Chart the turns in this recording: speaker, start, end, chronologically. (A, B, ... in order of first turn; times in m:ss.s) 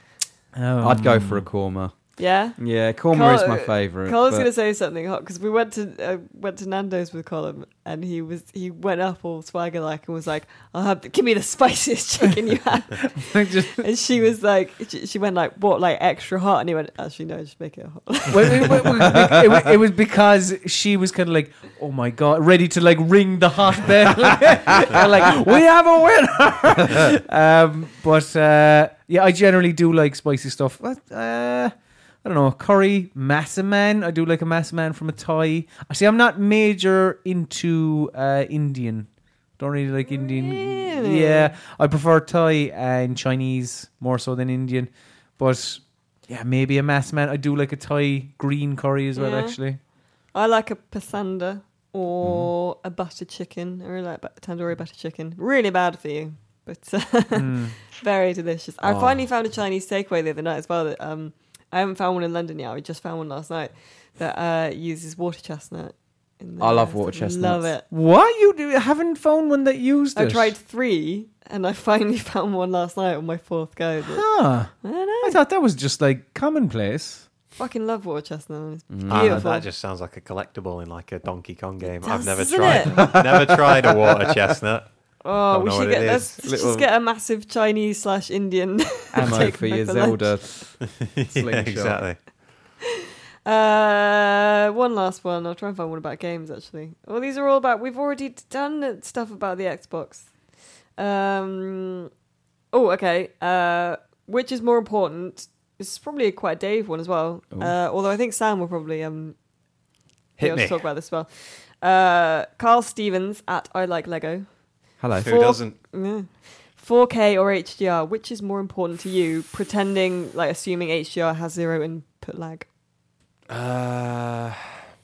0:00.5-0:01.4 A
0:00.8-0:02.0 B
0:02.2-0:19.0 C
0:02.5-0:04.5 B
0:13.2-0:13.8 A
0:18.3-0:49.8 A
0:40.0-0:41.5 C
0:49.1-1:07.8 C
0:52.2-0:52.5 B
0:57.3-0:57.8 A
0:58.8-0:59.3 B
1:06.6-1:07.7 B
1:07.9-1:10.5 A
1:10.1-1:15.4 C
1:14.0-1:17.3 A
1:17.6-1:19.6 C
1:18.9-1:19.4 B
1:19.1-1:26.4 D
1:21.8-1:23.1 C
1:22.7-1:23.6 B
1:25.2-1:30.4 C
1:26.4-1:26.9 B
1:29.1-1:32.0 B
1:29.2-1:29.5 D
1:30.8-1:32.2 D
1:33.4-1:40.4 C
1:40.9-1:42.1 C
1:42.7-1:49.4 C
1:50.4-1:50.8 D
1:50.4-1:54.5 C
1:55.0-1:55.6 B
1:55.2-1:55.8 D
1:55.3-2:02.7 C
2:03.5-2:04.8 D